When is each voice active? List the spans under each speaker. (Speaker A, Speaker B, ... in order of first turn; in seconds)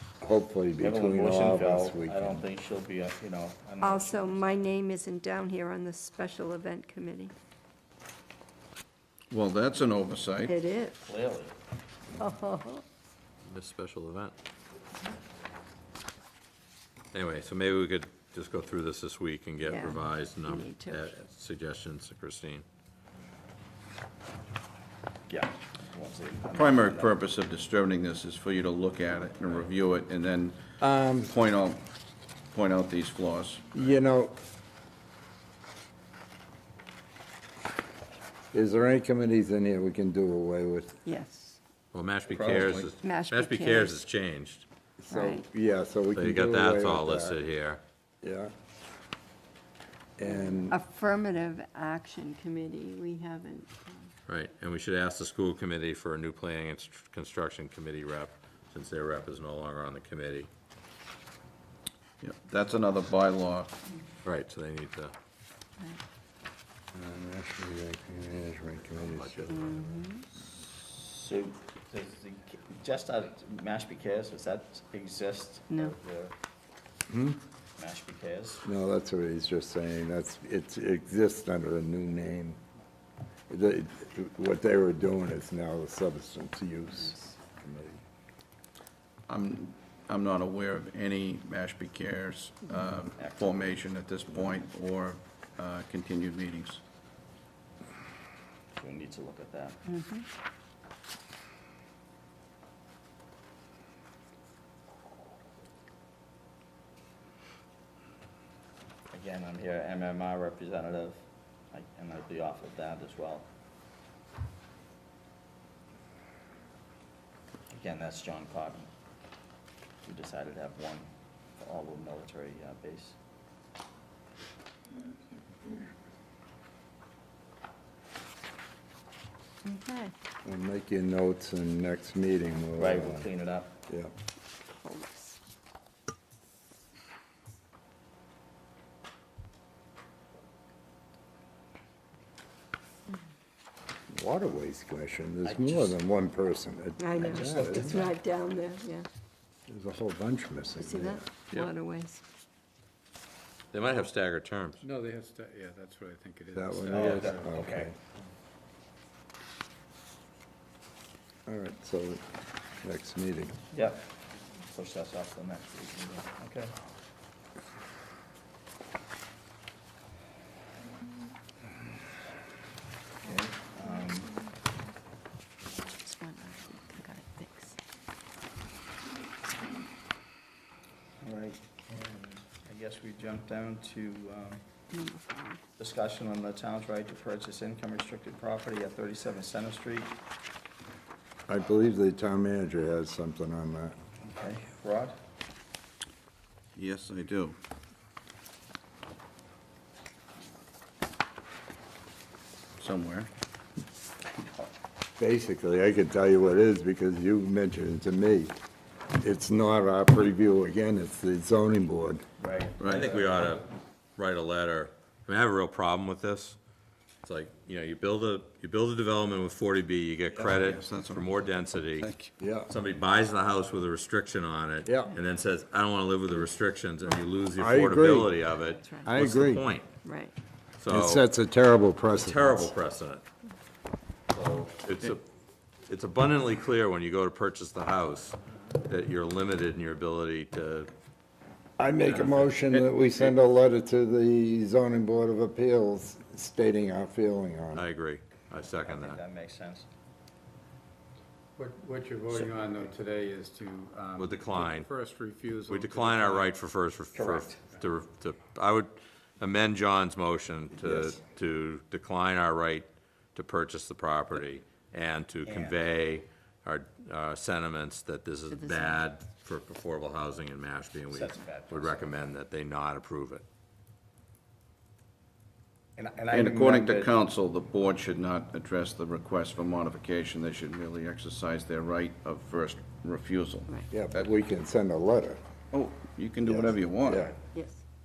Speaker A: 0.2-2.5, 30.8-31.3, 33.7-34.4, 38.5-41.0, 45.1-47.4, 48.2-48.5, 50.2-50.8, 66.9-69.9, 77.1-77.4, 78.6-82.6, 83.5-88.0, 130.4-133.3, 144.1-148.0, 149.7-151.2, 156.6-157.9, 161.5-162.2, 162.8-163.6, 191.5-193.9, 205.2-208.6, 209.2-212.2, 222.4-222.7, 224.8-225.2, 227.6-228.4, 229.0-229.7, 230.9-232.7, 241.8-247.9, 283.9-285.4, 286.5-287.4
Speaker B: 0.8-4.4, 11.0-11.6, 25.3-27.1, 70.6-76.3, 77.8-78.6, 93.2-93.8, 98.8-99.8, 109.1-113.5, 117.7-118.9, 120.0-123.2, 132.8-133.7, 145.4-146.0, 147.2-148.2, 156.9-157.9, 163.7-164.0, 164.7-166.7, 173.2-174.3, 181.2-184.6, 185.8-190.2, 194.2-195.2, 212.4-213.4, 248.8-249.9, 257.1-257.6, 265.4-265.8, 271.1-272.3, 276.0-277.1
Speaker C: 3.8-7.3, 10.5-11.0, 12.2-12.8, 19.6-21.1, 41.0-41.6, 43.0-44.0, 45.1-45.5, 50.2-54.1, 69.5-70.2, 75.7-75.9, 99.9-100.2, 129.7-130.1, 134.6-135.4, 147.0-149.1, 150.8-152.2, 176.0-177.8, 184.9-185.6, 228.7-229.1, 230.0-230.3, 268.5-269.1, 287.5-287.8
Speaker D: 9.3-10.6, 26.6-30.5, 31.2-31.8, 32.5-33.6, 42.4-42.9, 62.2-63.7, 89.3-96.8, 196.8-197.6, 202.8-203.3, 220.7-221.3, 222.0-222.3, 276.3-284.3, 285.7-287.3
Speaker E: 13.4-14.3, 17.1-22.6, 41.9-44.6, 46.1-47.8, 54.3-60.5, 64.2-65.1, 69.0-69.7, 153.7-154.8, 212.8-216.6, 217.2-222.1, 222.7-229.9, 230.8-231.2, 232.2-233.2, 234.3-235.3, 235.9-240.9, 242.0-243.3, 247.7-249.2, 254.2-254.9, 255.7-273.4
Speaker F: 154.8-157.5, 251.6-256.6